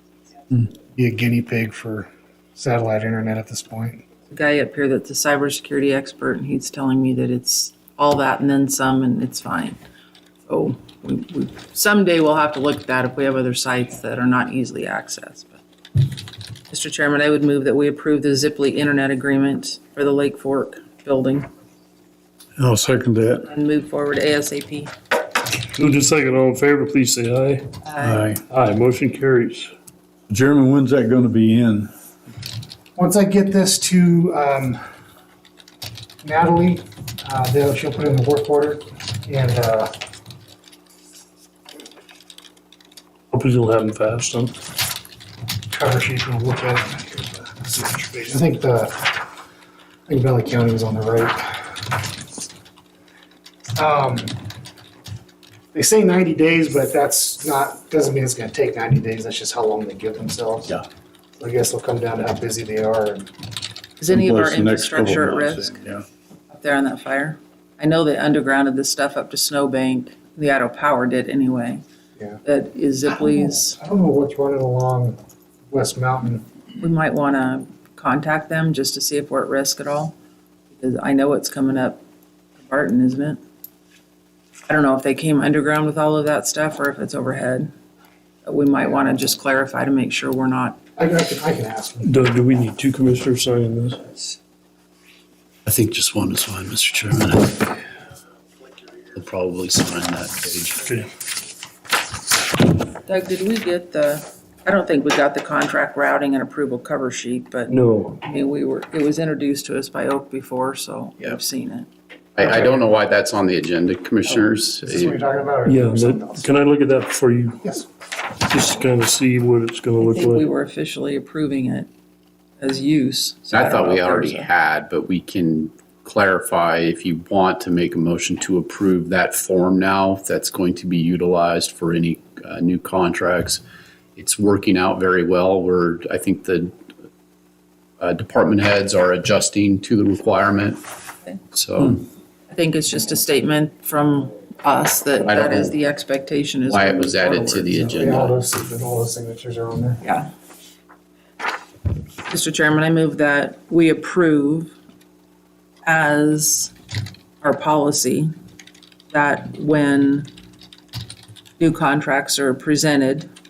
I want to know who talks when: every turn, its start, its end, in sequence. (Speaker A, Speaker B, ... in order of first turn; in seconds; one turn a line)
Speaker A: 0.6-4.0
Speaker B: 4.3-9.8
Speaker B: 10.5-15.6
Speaker B: 16.7-21.5
Speaker C: 22.6-23.4
Speaker B: 23.5-24.9
Speaker D: 25.8-27.7
Speaker B: 27.8-28.3
Speaker C: 28.0-28.4
Speaker D: 28.5-29.7
Speaker C: 30.3-31.9
Speaker A: 33.0-34.8
Speaker A: 36.2-39.9
Speaker D: 43.3-44.5
Speaker A: 45.7-49.2
Speaker A: 50.1-51.9
Speaker A: 53.8-54.4
Speaker A: 55.7-60.8
Speaker A: 61.4-63.3
Speaker B: 64.0-65.8
Speaker C: 64.1-66.0
Speaker B: 66.5-71.8
Speaker B: 72.4-73.8
Speaker A: 73.1-75.2
Speaker A: 75.7-76.5
Speaker B: 76.8-80.1
Speaker B: 80.7-82.0
Speaker B: 82.6-83.4
Speaker B: 84.7-87.7
Speaker B: 88.4-90.8
Speaker A: 91.0-92.1
Speaker D: 92.0-94.0
Speaker E: 95.7-97.7
Speaker E: 99.1-100.9
Speaker B: 103.0-111.9
Speaker D: 107.7-108.2
Speaker E: 112.3-115.2
Speaker A: 114.8-116.5
Speaker D: 115.6-117.6
Speaker D: 118.4-120.5
Speaker B: 120.0-121.9
Speaker B: 122.6-124.5
Speaker E: 123.5-133.6
Speaker E: 134.2-136.7
Speaker E: 138.0-140.8
Speaker E: 141.5-142.0
Speaker B: 142.5-148.2
Speaker E: 145.2-145.7
Speaker E: 146.7-148.3
Speaker A: 148.0-150.0
Speaker B: 150.0-150.3
Speaker B: 152.3-154.7
Speaker B: 155.8-156.7
Speaker B: 157.4-158.3
Speaker B: 159.1-160.3
Speaker B: 161.6-163.3